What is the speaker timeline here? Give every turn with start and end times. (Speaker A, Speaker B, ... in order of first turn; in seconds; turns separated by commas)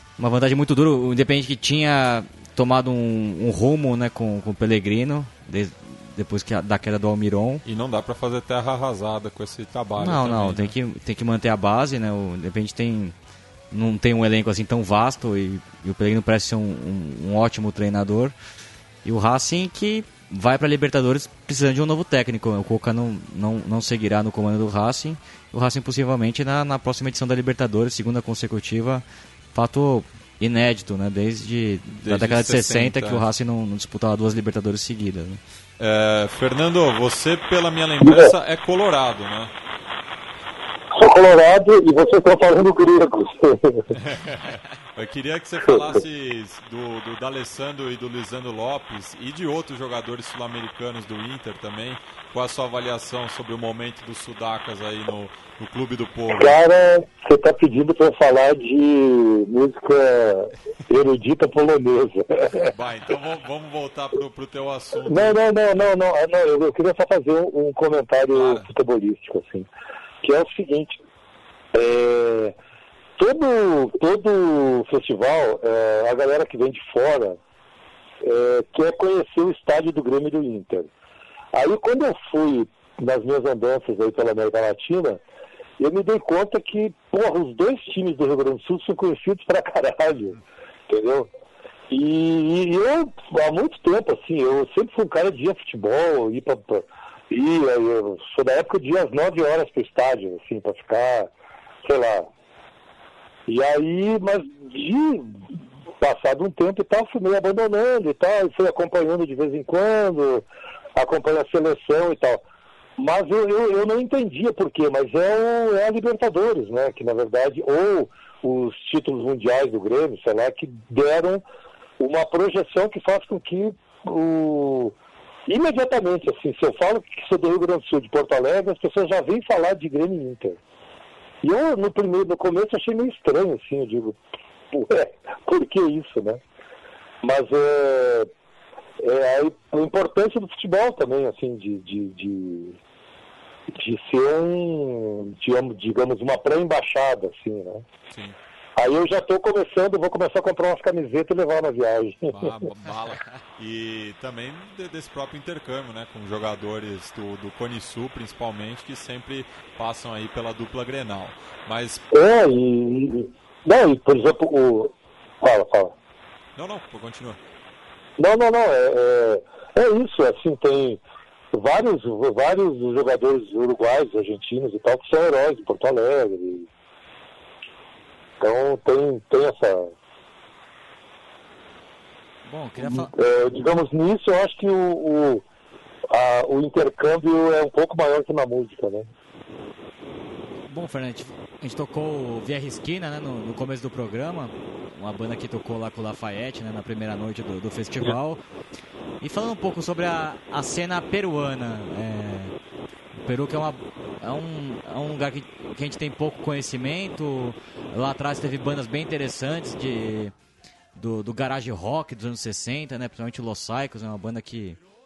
Speaker A: 0.2-7.6, Speaker B: 7.7-10.7, Speaker A: 10.0-13.2, Speaker A: 13.7-18.4, Speaker A: 19.1-35.4, Speaker B: 32.0-33.2, Speaker B: 35.8-39.5, Speaker C: 38.0-38.3, Speaker C: 40.9-43.9, Speaker B: 43.9-56.6, Speaker C: 45.7-45.9, Speaker C: 56.3-62.7, Speaker B: 62.7-65.4, Speaker C: 65.0-69.7, Speaker B: 68.3-68.7, Speaker C: 70.2-71.0, Speaker C: 71.7-72.5, Speaker C: 73.2-77.4, Speaker C: 78.2-80.9, Speaker C: 81.5-85.2, Speaker C: 85.8-90.4, Speaker C: 90.9-91.3, Speaker C: 91.9-101.3, Speaker C: 101.8-102.3, Speaker C: 103.5-105.4, Speaker C: 106.0-112.4, Speaker C: 113.0-121.4, Speaker C: 122.0-125.0, Speaker C: 125.5-130.6, Speaker C: 131.4-134.2, Speaker C: 134.7-136.4, Speaker C: 137.2-138.3, Speaker C: 139.0-142.8, Speaker C: 143.7-147.8, Speaker B: 148.1-148.4, Speaker C: 148.8-152.6, Speaker B: 152.3-162.0, Speaker C: 162.1-165.9, Speaker B: 166.6-167.4, Speaker C: 168.2-171.0, Speaker C: 171.5-176.7, Speaker C: 178.4-179.9, Speaker A: 182.4-183.2, Speaker C: 182.8-185.4, Speaker C: 186.1-189.1, Speaker A: 190.7-198.4, Speaker A: 199.2-202.5, Speaker A: 203.2-210.3, Speaker A: 210.9-214.8